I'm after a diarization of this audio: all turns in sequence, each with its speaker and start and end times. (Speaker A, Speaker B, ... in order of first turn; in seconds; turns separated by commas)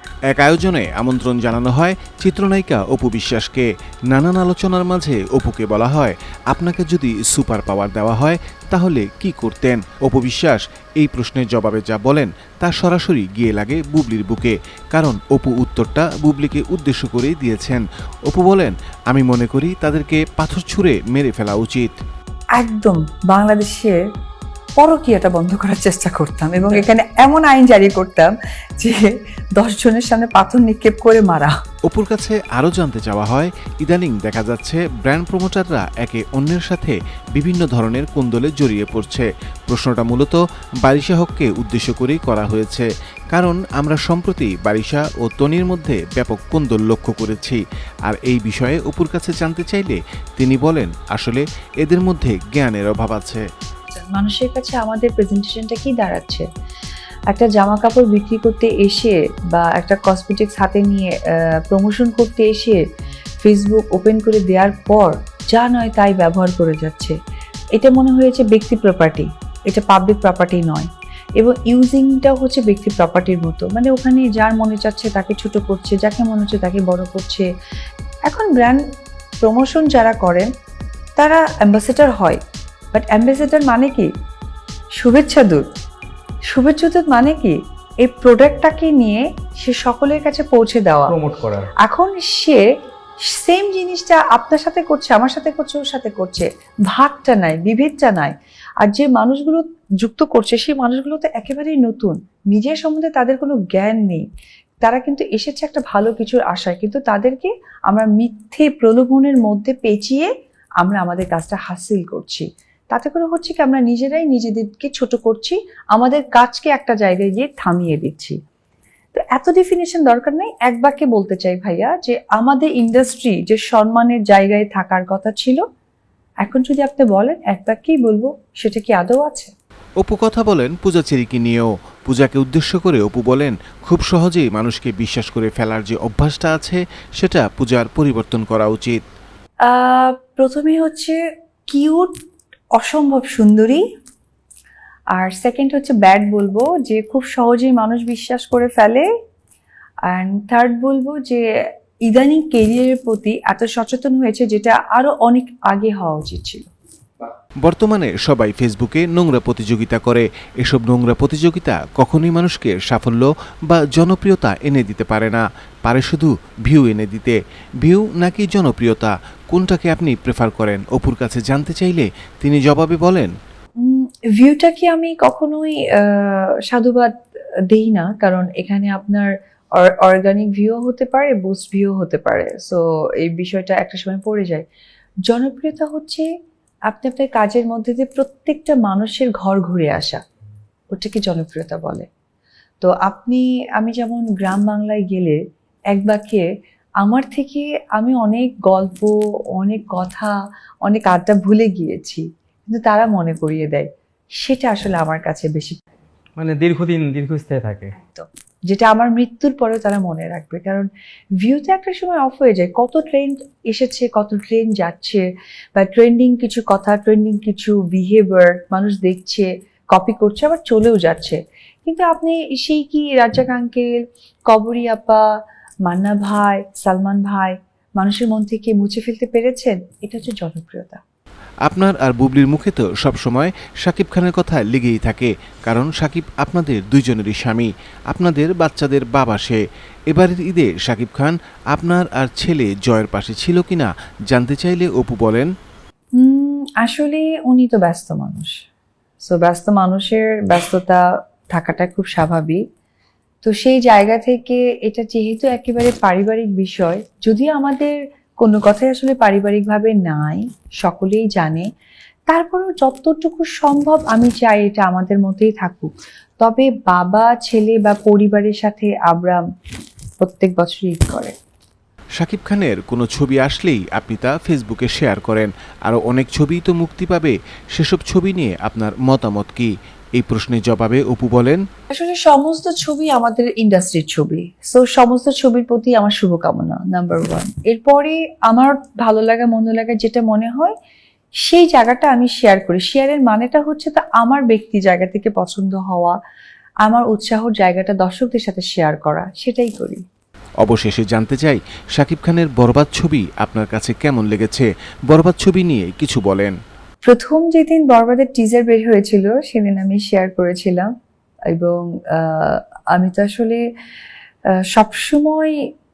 Speaker A: 0.3-22.0, Speaker B: 22.6-24.0, Speaker B: 24.8-31.5, Speaker A: 31.9-53.4, Speaker B: 54.0-56.5, Speaker B: 57.3-62.8, Speaker B: 63.4-67.1, Speaker B: 67.8-70.9, Speaker B: 71.4-77.5, Speaker B: 78.3-78.8, Speaker B: 79.4-80.5, Speaker B: 81.2-82.4, Speaker B: 82.9-84.1, Speaker B: 85.0-85.7, Speaker B: 86.5-91.1, Speaker C: 91.1-91.7, Speaker B: 91.8-92.6, Speaker B: 93.2-104.2, Speaker B: 104.8-110.3, Speaker B: 110.8-118.4, Speaker B: 119.1-125.6, Speaker B: 126.4-129.5, Speaker A: 130.0-139.0, Speaker B: 139.7-141.2, Speaker B: 141.7-142.1, Speaker B: 142.8-143.8, Speaker B: 145.1-149.1, Speaker B: 150.1-151.4, Speaker B: 152.1-156.7, Speaker A: 157.6-173.3, Speaker B: 173.8-177.1, Speaker B: 177.7-184.7, Speaker B: 185.3-186.3, Speaker B: 186.9-190.2, Speaker B: 190.9-192.1, Speaker B: 192.8-195.4, Speaker B: 195.9-196.4, Speaker B: 197.0-200.3, Speaker B: 200.8-203.9, Speaker B: 204.4-205.8, Speaker C: 206.4-207.9, Speaker B: 208.1-210.8, Speaker B: 211.4-215.2, Speaker B: 215.8-223.9, Speaker B: 224.5-225.2, Speaker B: 225.8-231.0, Speaker A: 231.6-245.5, Speaker B: 246.2-248.5, Speaker B: 249.2-251.0, Speaker B: 251.5-252.6, Speaker B: 253.4-261.6, Speaker B: 262.3-269.4, Speaker B: 270.2-271.3, Speaker A: 272.2-281.6, Speaker B: 281.9-290.7, Speaker B: 291.4-296.1, Speaker B: 296.8-300.0, Speaker A: 300.6-306.6, Speaker B: 307.1-310.9, Speaker B: 311.5-313.6, Speaker B: 314.7-315.5